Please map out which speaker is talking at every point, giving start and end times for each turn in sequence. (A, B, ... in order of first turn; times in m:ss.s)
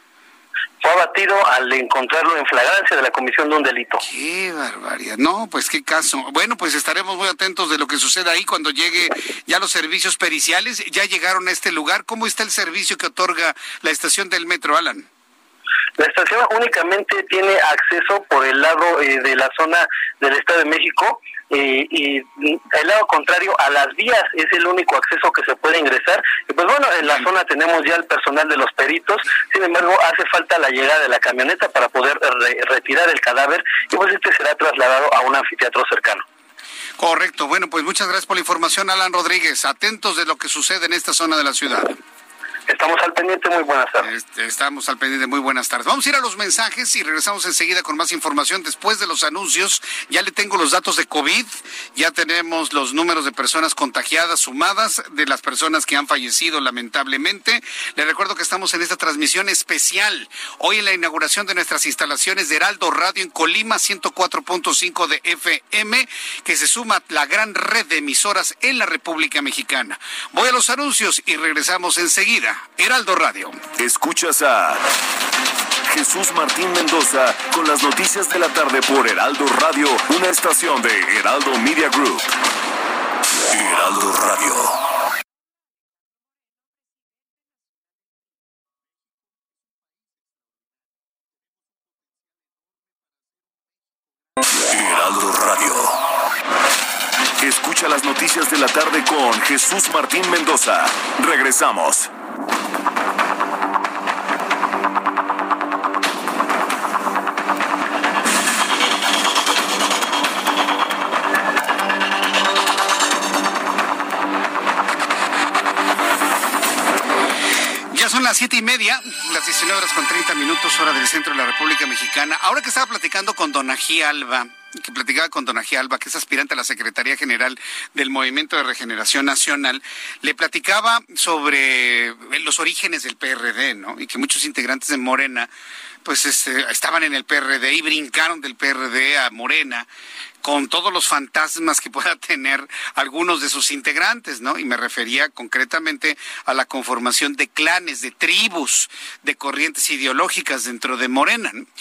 0:00.8-0:04.0 A
0:04.0-0:15.1 B
0:16.0-0:36.2 A
0:37.0-0:42.0 B
0:42.7-0:44.1 A
0:44.0-1:13.6 B
1:13.8-1:14.8 C
1:15.9-1:22.3 C
1:23.5-1:24.8 C
1:34.7-1:36.1 C
1:37.4-1:42.1 C
1:57.9-2:15.5 B
2:16.0-2:19.9 B
2:20.4-2:31.7 B